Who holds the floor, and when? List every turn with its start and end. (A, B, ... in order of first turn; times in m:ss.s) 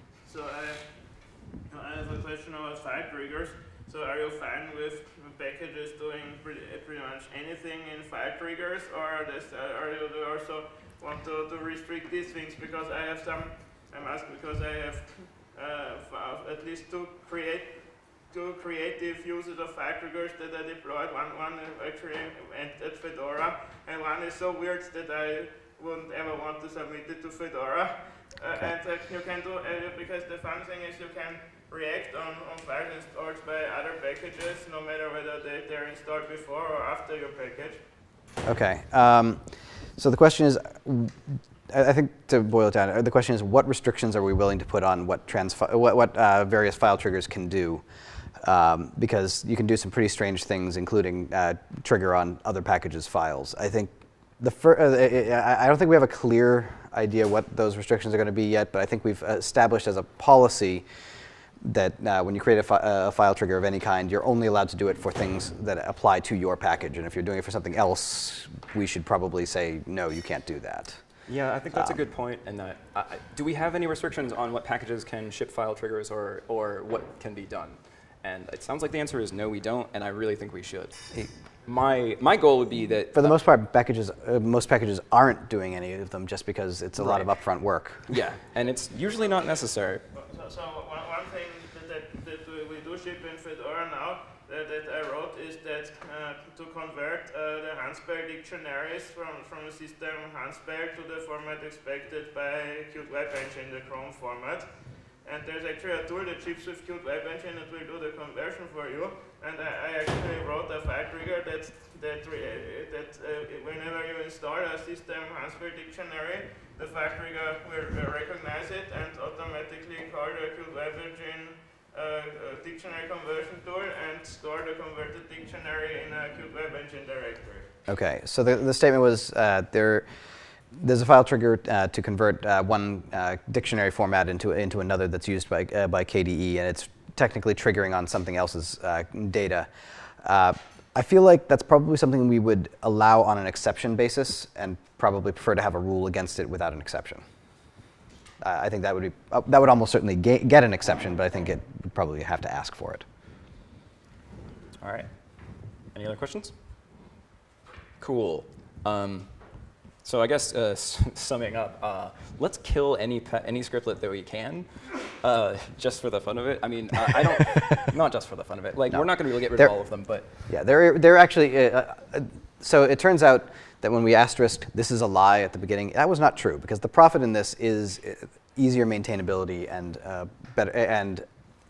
0:00.2-0:37.8 A
0:38.4-0:47.8 B
0:48.4-1:00.9 B
1:01.6-1:11.0 B
1:11.3-1:23.4 C
1:11.7-1:12.0 B
1:23.2-1:28.1 B
1:27.0-1:27.3 C
1:28.1-1:30.0 C
1:29.0-2:07.7 A
2:07.9-2:10.1 B
2:10.7-2:19.7 B
2:20.2-2:27.2 B
2:28.4-2:33.0 B
2:34.8-2:35.1 C
2:35.9-2:36.5 C
2:38.0-2:39.3 C
2:40.0-2:50.3 C
2:48.9-2:49.8 B
2:50.4-3:01.3 B